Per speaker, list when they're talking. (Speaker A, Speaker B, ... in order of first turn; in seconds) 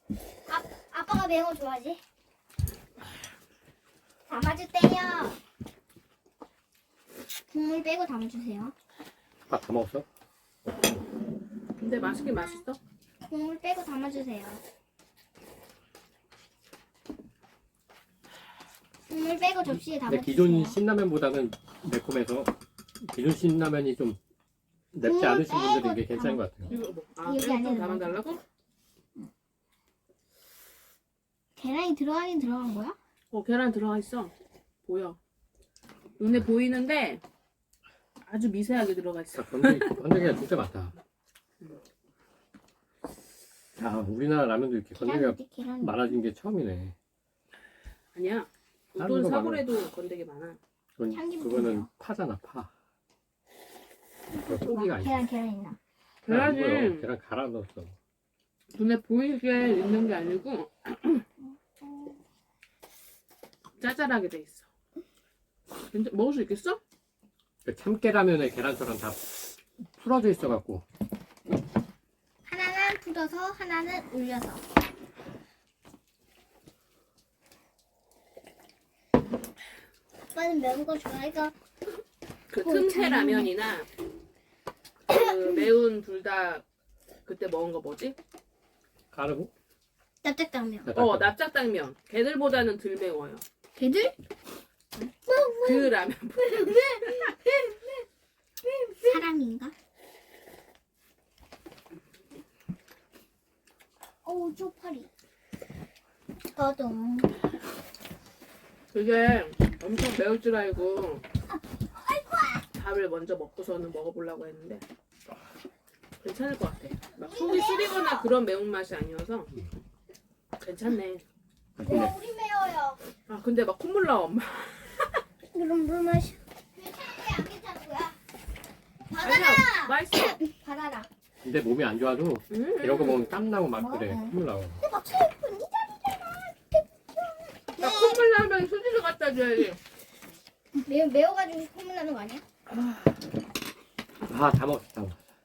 Speaker A: 0.5-2.0, 4.3-5.4, 7.5-8.7, 13.3-14.6, 19.1-20.8, 25.0-28.2, 31.6-33.0, 45.0-46.1, 51.1-51.9, 54.3-55.8, 61.8-62.2, 72.5-74.6, 80.3-81.5, 82.6-83.5, 90.2-90.9, 93.8-94.2, 95.2-97.8, 98.7-99.7, 104.2-105.1, 106.5-107.3, 112.0-112.7, 117.2-118.2, 121.8-123.0, 125.5-128.2, 129.1-131.1, 133.8-138.4, 140.8-142.4
Speaker B: 9.5-10.1, 19.7-24.2, 24.9-26.7, 39.3-40.9, 43.8-46.9, 49.0-49.7, 51.0-52.7, 54.4-55.3, 56.3-58.0, 67.6-69.4, 70.0-70.8, 89.1-89.5, 90.8-91.3, 121.8-122.1, 131.4-134.8, 144.2-145.2
Speaker C: 11.8-12.8, 26.7-28.4, 33.3-34.3, 34.9-35.2, 36.2-37.2, 38.2-39.9, 48.1-50.6, 56.2-57.1, 58.7-61.2, 63.8-64.7, 65.9-66.8, 82.5-83.9, 85.1-86.6, 87.2-88.2, 90.9-93.4, 95.0-97.3, 108.9-111.2, 112.8-114.8, 116.2-119.5, 120.6-121.2, 123.3-125.2, 129.2-130.4, 132.5-133.3, 137.8-139.8, 142.7-143.1